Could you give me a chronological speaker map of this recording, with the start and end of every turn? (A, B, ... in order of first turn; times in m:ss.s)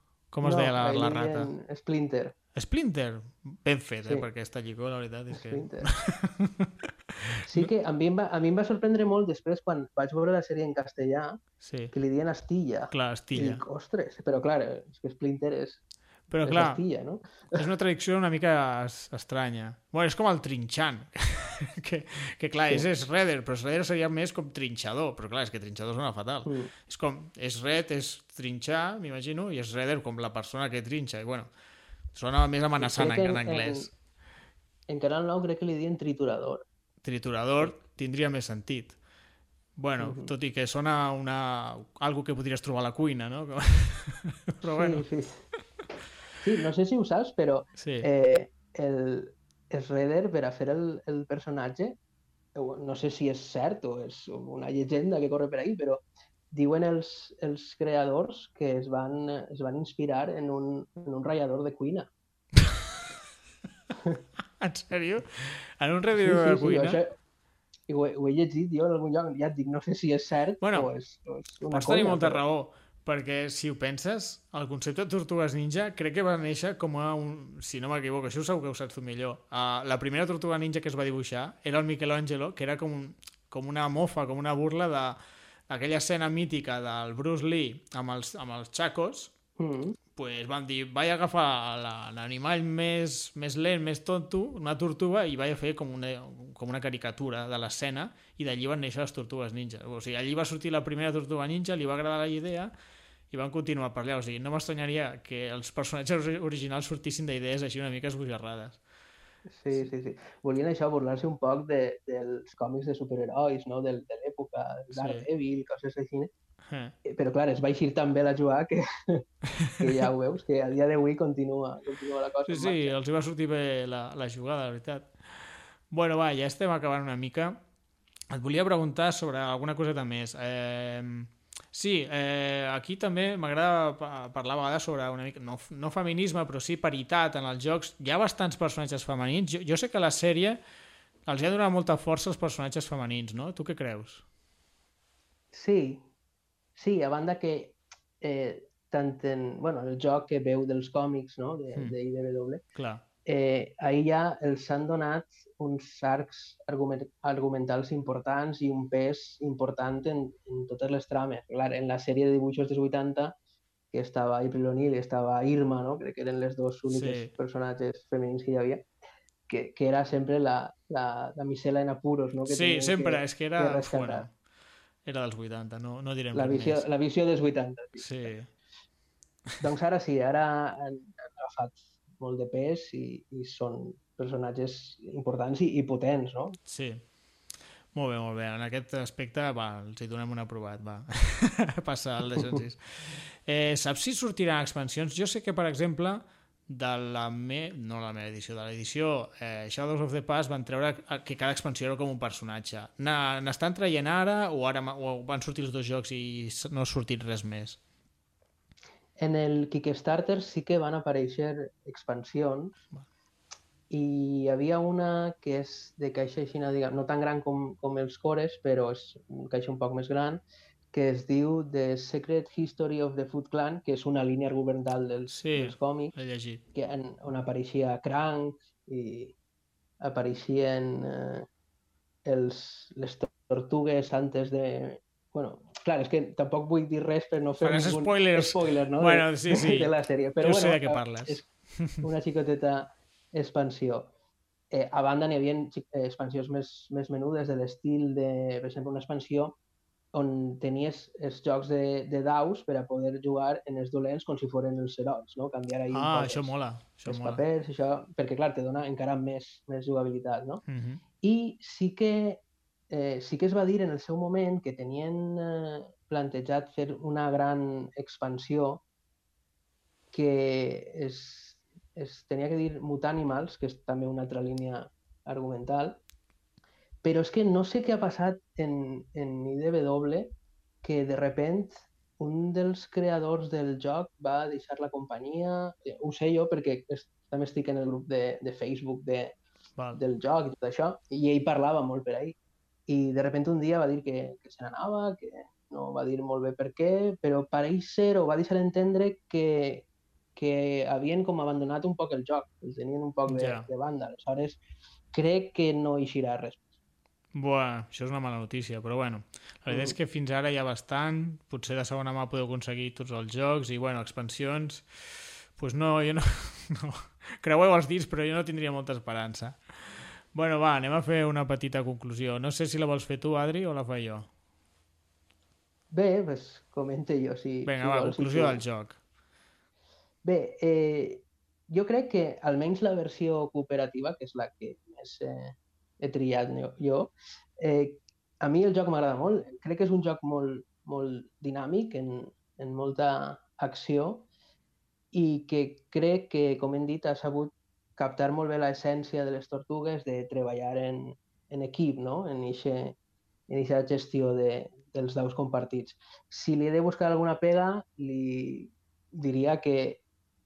0:00.3-0:01.5 A
0:00.4-0:02.3 B
0:02.6-0:07.7 A
0:05.3-0:06.0 B
0:07.5-0:11.4 B
0:11.6-0:11.9 A
0:11.9-0:15.8 B
0:12.9-0:13.6 A
0:16.3-0:16.8 A
0:16.4-0:17.6 B
0:17.5-0:31.5 A
0:26.4-0:26.7 B
0:32.1-0:33.9 A
0:32.8-0:33.9 B
0:34.9-0:36.7 B
0:37.0-0:39.0 A
0:39.8-0:45.0 A
0:40.0-0:40.3 B
0:44.6-0:45.4 B
0:46.4-0:52.0 B
0:47.8-0:48.1 A
0:52.6-1:02.1 B
1:02.6-1:02.8 A
1:04.6-1:07.0 A
1:06.2-1:07.2 B
1:07.9-1:12.4 B
1:10.6-1:10.9 A
1:11.7-1:29.3 A
1:29.6-1:30.0 B
1:30.1-1:42.7 A
1:43.3-1:48.8 A
1:49.5-1:56.3 B
1:54.9-1:55.3 A
1:56.7-1:57.0 A
1:57.0-2:02.9 B
2:02.5-2:07.6 A
2:08.3-2:20.6 A
2:21.3-2:24.2 A
2:25.5-2:26.0 B
2:26.8-2:32.6 B
2:32.8-2:33.0 A
2:33.3-2:43.4 B
2:43.9-2:48.9 B
2:46.9-2:47.3 A
2:49.5-2:54.3 B
2:52.5-2:54.3 A
2:55.0-2:56.8 A
2:56.3-2:58.3 B
2:58.0-2:58.5 A
2:59.6-3:06.6 B
3:06.7-3:07.0 A
3:07.9-3:27.8 A
3:29.2-3:32.8 B
3:33.9-3:46.2 B
3:45.3-3:46.6 A
3:46.7-3:49.4 B
3:50.0-3:51.5 B
3:52.3-4:01.5 B
3:57.6-4:02.0 A
4:02.0-4:04.1 B
4:04.7-4:09.6 B
4:10.1-4:16.5 B
4:15.9-4:17.4 A
4:17.0-4:20.6 B
4:20.7-4:21.0 A
4:21.2-4:28.8 B
4:30.1-4:36.0 B
4:37.0-4:49.4 B
4:50.0-4:52.4 B
4:52.9-5:04.6 B
5:03.3-5:03.7 A
5:05.1-5:06.7 B
5:07.3-5:24.3 A
5:09.7-5:10.0 B
5:25.9-5:28.6 B
5:27.7-5:29.0 A
5:30.2-5:44.3 B
5:45.1-5:53.0 B
5:53.5-6:00.0 B